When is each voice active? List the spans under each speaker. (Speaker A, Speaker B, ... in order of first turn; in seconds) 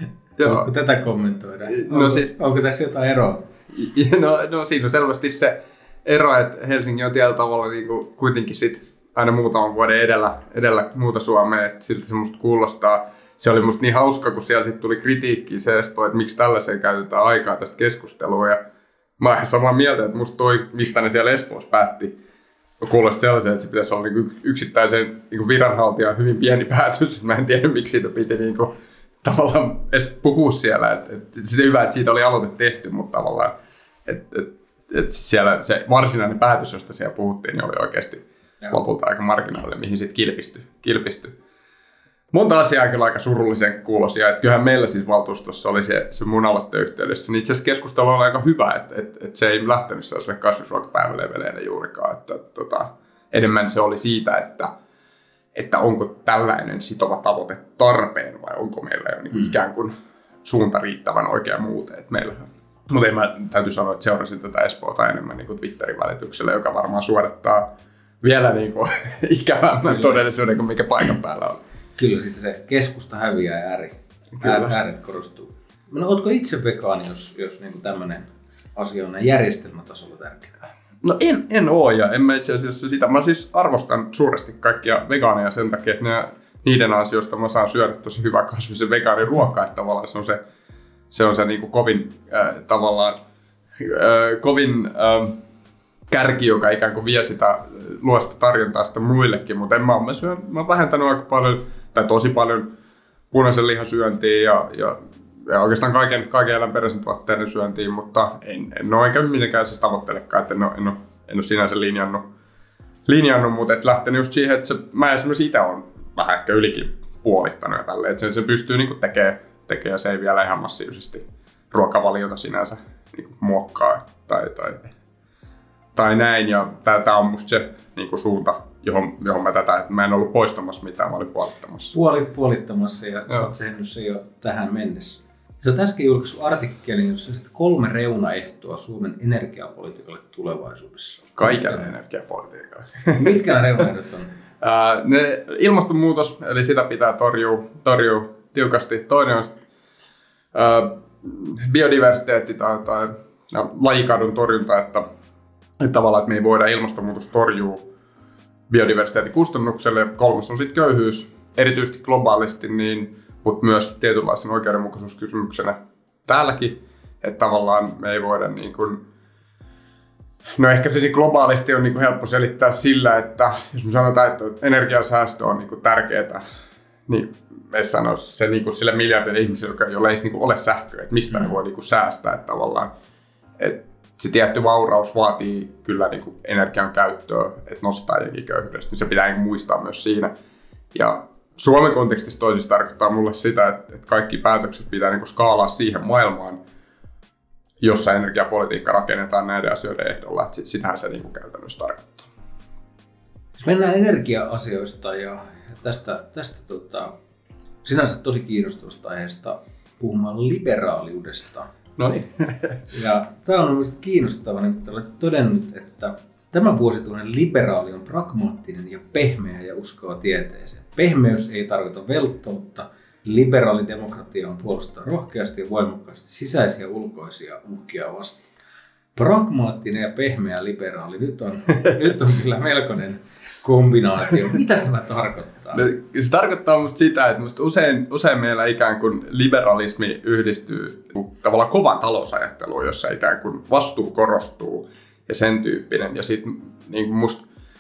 Speaker A: 0.4-0.7, 1.7-2.3, 3.7-18.6, 19.2-22.1, 22.8-28.7, 29.2-33.5, 34.1-41.3, 42.3-54.7, 55.5-71.6, 74.4-74.8, 81.0-90.4, 91.1-93.2, 93.8-95.4, 96.1-102.7, 103.3-112.3, 113.1-124.9, 126.0-131.9, 141.4-143.6, 144.6-149.6, 150.5-155.1, 155.8-157.9, 158.7-169.0, 170.6-176.4, 177.1-182.9, 183.6-190.3, 190.9-196.6, 197.8-202.3, 212.0-212.8, 235.7-247.4
Speaker B: 0.4-3.5, 69.9-70.2, 72.0-80.5, 131.9-141.9, 143.2-144.3, 203.6-207.1, 207.8-211.7, 212.9-228.5, 229.2-235.8